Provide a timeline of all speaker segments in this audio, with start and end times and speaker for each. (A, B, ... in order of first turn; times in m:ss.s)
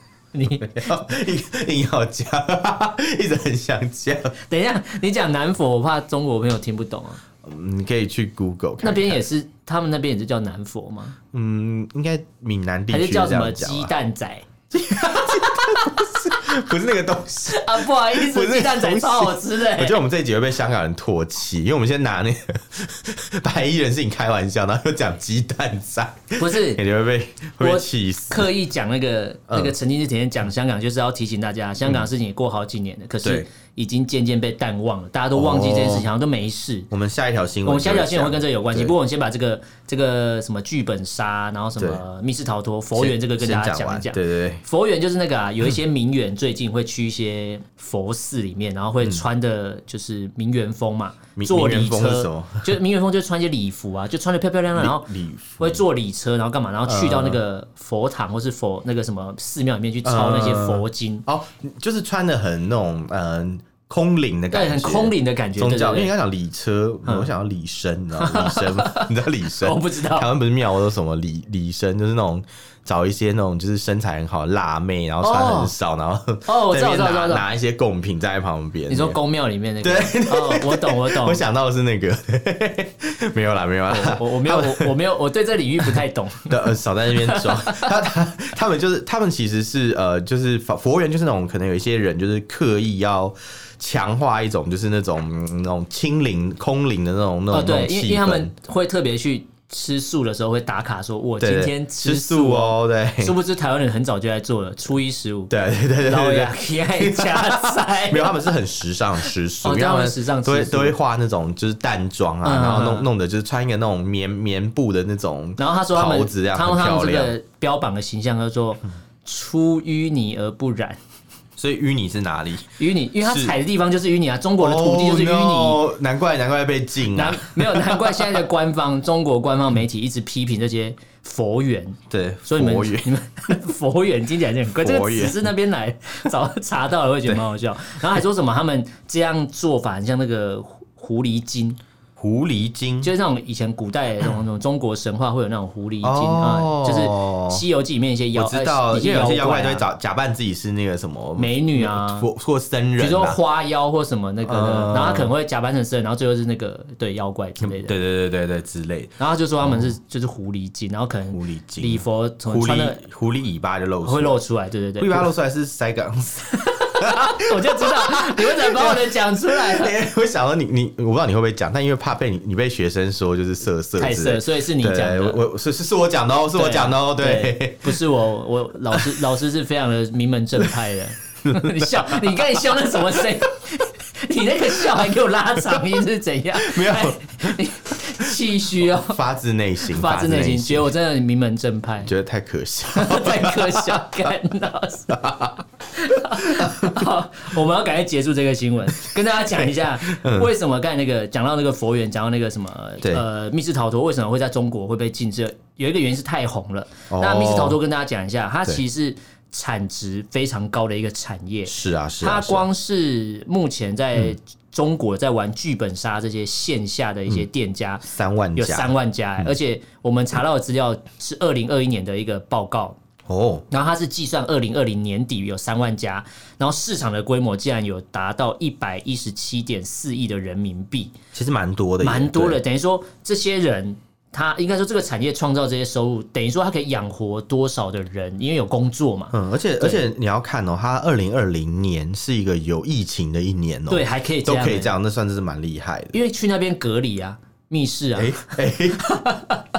0:00.3-0:00.8 A
0:00.6-0:04.4 B
0:04.5-0:07.2 A
0:07.4-0:09.2 B
0:08.8-0:11.2 A
0:11.3-0:13.9 B
0:12.9-0:16.4 A
0:14.7-0:28.5 B
0:17.5-0:20.0 A
0:26.4-0:26.8 A
0:27.6-0:36.9 A
0:29.5-0:29.8 B
0:35.3-0:36.1 B
0:36.9-0:39.0 B
0:37.6-0:55.1 A
0:41.8-0:42.0 B
0:43.0-0:44.6 B
0:51.4-0:52.8 B
0:54.8-0:55.8 B
0:55.6-1:01.2 A
0:56.9-0:57.4 B
1:00.0-1:19.2 B
1:04.5-1:06.1 A
1:07.0-1:07.3 A
1:08.2-1:10.3 A
1:15.2-1:15.7 A
1:16.5-1:17.5 A
1:18.9-1:21.4 A
1:19.8-1:24.9 B
1:23.9-1:27.9 A
1:26.5-1:38.5 B
1:37.5-1:45.5 A
1:41.4-1:43.4 B
1:45.5-1:57.4 B
1:46.0-1:48.4 A
1:49.2-1:51.0 A
1:52.4-1:53.1 A
1:55.6-2:01.0 A
2:01.6-2:03.6 B
2:02.8-2:05.8 A
2:04.6-2:08.4 B
2:07.1-2:21.8 A
2:12.1-2:13.1 B
2:14.8-2:15.5 B
2:22.2-2:23.1 B
2:23.0-2:29.8 A
2:26.0-2:27.6 B
2:28.3-2:33.4 B
2:31.4-2:32.3 A
2:33.0-2:37.9 A
2:34.4-2:35.3 B
2:37.6-2:39.9 B
2:39.2-2:43.0 A
2:41.3-2:44.4 B
2:44.0-2:45.3 A
2:45.0-2:58.0 B
2:46.6-2:50.0 A
2:54.0-2:55.4 A
2:56.5-3:09.2 A
3:01.4-3:03.3 B
3:04.8-3:05.1 B
3:06.6-3:07.6 B
3:08.2-3:10.9 B
3:09.8-3:12.1 A
3:12.0-3:14.2 B
3:12.9-3:15.2 A
3:15.1-3:15.6 B
3:15.9-3:43.0 A
3:16.3-3:17.1 B
3:19.1-3:20.5 B
3:27.1-3:27.8 B
3:31.7-3:32.7 B
3:38.0-3:39.6 B
3:43.3-3:43.6 B
3:43.7-3:51.2 A
3:51.3-3:52.6 B
3:52.0-4:00.0 A
3:59.3-4:06.2 B
4:03.9-4:04.9 A
4:06.1-4:09.7 A
4:08.2-4:09.2 B